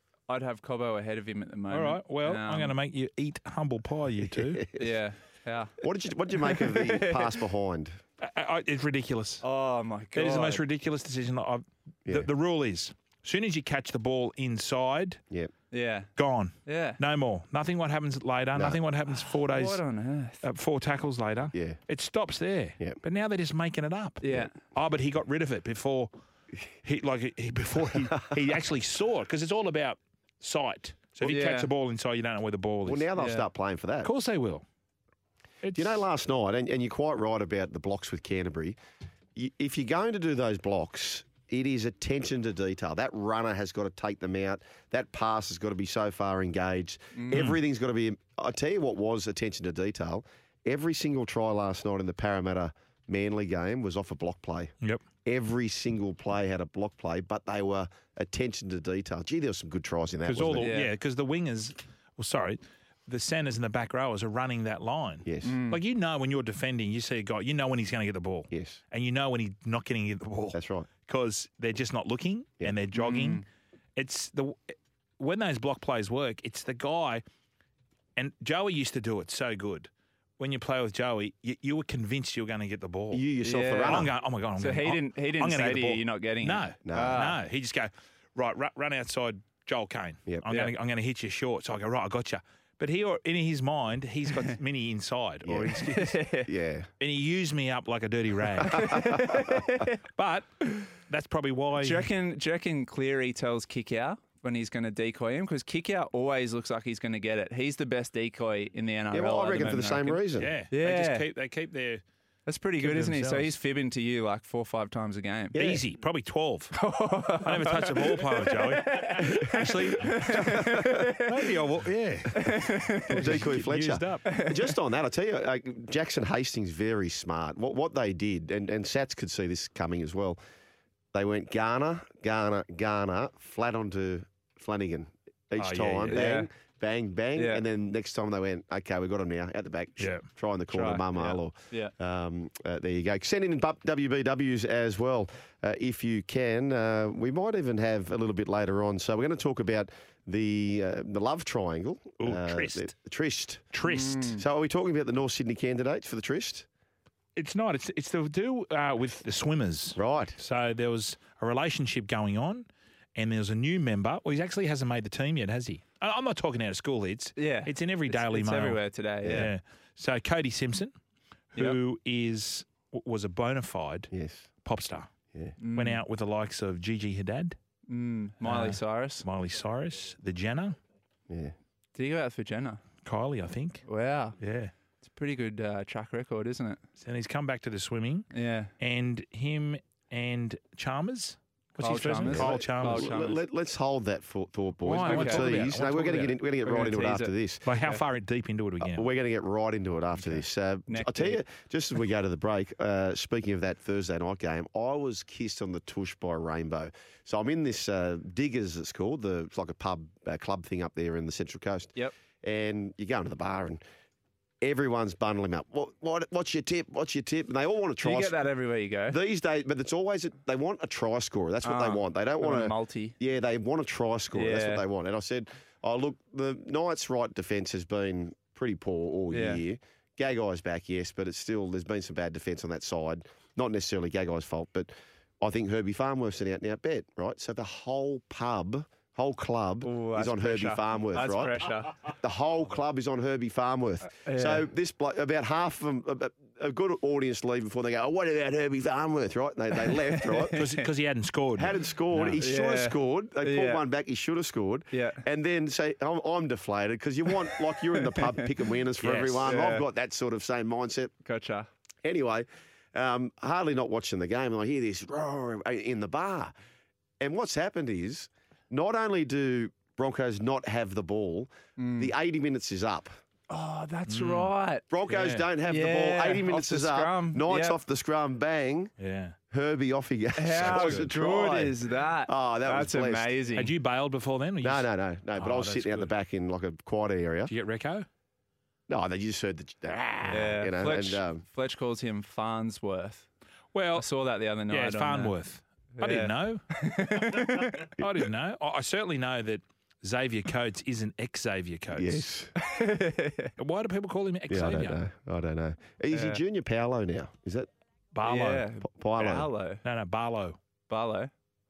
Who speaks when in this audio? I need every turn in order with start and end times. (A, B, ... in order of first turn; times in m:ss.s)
0:00.3-0:02.7 A
0:01.7-0:04.7 B
0:04.2-0:04.7 C
0:04.8-0:05.8 A
0:05.8-0:08.0 C
0:06.4-0:07.4 A
0:08.2-0:09.4 B
0:09.4-0:10.6 A
0:10.1-0:15.2 B
0:15.7-0:16.1 A
0:16.2-0:19.8 B
0:16.7-0:17.0 A
0:18.6-0:18.8 C
0:19.2-0:20.4 A
0:20.4-0:26.1 B
0:21.5-0:21.8 C
0:24.2-0:24.5 A
0:26.8-0:33.1 B
0:28.0-0:28.6 C
0:31.2-0:31.7 A
0:32.8-0:34.1 C
0:33.2-0:33.5 A
0:34.0-0:34.6 B
0:35.6-0:36.0 B
0:35.7-0:38.8 C
0:39.4-0:54.7 C
0:47.1-0:47.4 A
0:47.3-0:47.6 B
0:55.2-1:00.7 C
1:00.3-1:13.4 B
1:00.6-1:00.9 A
1:05.2-1:05.6 C
1:05.4-1:05.8 A
1:08.5-1:08.8 C
1:10.5-1:10.9 C
1:12.9-1:13.4 A
1:14.0-1:17.2 B
1:18.2-1:23.2 B
1:23.1-1:24.2 C
1:23.4-1:24.1 A
1:23.8-1:36.2 B
1:24.6-1:27.4 A
1:26.8-1:27.4 C
1:30.5-1:30.7 A
1:35.4-1:35.8 C
1:35.9-1:36.5 A
1:36.4-1:36.9 C
1:37.0-1:39.3 B
1:38.7-1:39.9 A
1:38.7-1:39.4 C
1:40.2-1:42.1 B
1:41.8-1:51.2 A
1:49.1-1:50.5 C
1:50.4-1:52.0 B
1:52.5-1:55.6 A
1:52.8-1:53.5 B
1:55.5-1:55.8 C
1:55.6-1:56.8 B
1:56.8-2:01.3 A
1:57.4-2:04.3 B
2:00.3-2:00.9 C
2:02.3-2:03.3 A
2:03.1-2:10.4 C
2:04.2-2:04.6 A
2:11.1-2:33.7 C
2:15.6-2:16.2 B
2:16.1-2:16.5 A
2:17.4-2:17.6 A
2:20.0-2:20.2 B
2:20.7-2:21.9 A
2:32.2-2:32.9 B
2:33.7-2:34.4 B
2:33.9-2:34.4 A
2:34.4-2:36.7 C
2:37.4-2:50.9 B
2:40.0-2:40.4 C
2:47.4-2:49.5 A
2:49.2-2:49.5 C
2:51.6-2:54.1 B
2:54.1-2:54.5 C
2:54.6-2:55.1 B
2:55.6-2:56.0 A
2:55.7-2:57.6 B
2:57.9-2:59.2 A
2:58.4-3:00.8 B
3:01.3-3:01.5 C
3:02.0-3:02.8 A
3:03.0-3:03.8 B
3:03.9-3:04.4 A
3:04.4-3:04.7 B
3:05.0-3:06.8 A
3:07.0-3:08.3 B
3:08.3-3:08.7 A
3:08.8-3:13.1 B
3:11.8-3:13.4 A
3:12.2-3:17.7 C
3:14.8-3:16.4 B
3:15.0-3:18.0 A
3:17.7-3:19.0 B
3:18.8-3:33.8 C
3:20.3-3:21.4 A
3:34.6-3:38.4 C
3:38.0-3:39.2 A
3:39.1-4:10.6 C
3:41.6-3:43.2 A
3:44.3-3:44.8 A
3:49.3-3:49.6 A
3:59.8-4:02.0 A
4:04.1-4:04.7 A
4:10.1-4:10.8 A
4:10.6-4:12.4 B
4:11.6-4:21.1 C
4:12.4-4:13.8 A
4:14.9-4:15.2 A
4:17.9-4:18.5 A
4:19.0-4:19.5 B
4:19.4-4:19.8 A
4:21.2-4:21.7 A
4:22.0-4:26.5 C
4:27.2-4:33.1 C
4:31.8-4:32.1 A
4:33.5-4:37.8 A
4:34.1-4:34.5 B
4:34.9-4:38.9 C
4:35.1-4:35.4 B
4:39.0-4:39.4 B
4:39.5-4:41.8 C
4:40.4-4:43.7 A
4:40.6-4:41.1 B
4:42.3-4:43.4 C
4:43.5-4:46.1 B
4:44.6-4:47.5 C
4:47.5-4:48.1 B
4:48.9-4:51.4 C
4:50.3-4:53.3 A
4:53.7-4:54.1 B
4:54.0-4:55.4 A
4:54.7-4:56.6 B
4:55.9-4:57.9 A
4:57.2-5:02.2 B
5:01.9-5:02.5 C
5:02.6-5:03.5 A
5:03.6-5:05.0 B
5:04.5-5:07.7 C
5:06.1-5:06.4 A
5:08.1-5:08.7 B
5:08.2-5:09.8 A
5:08.8-5:09.5 C
5:09.8-5:10.6 B
5:10.9-5:11.3 A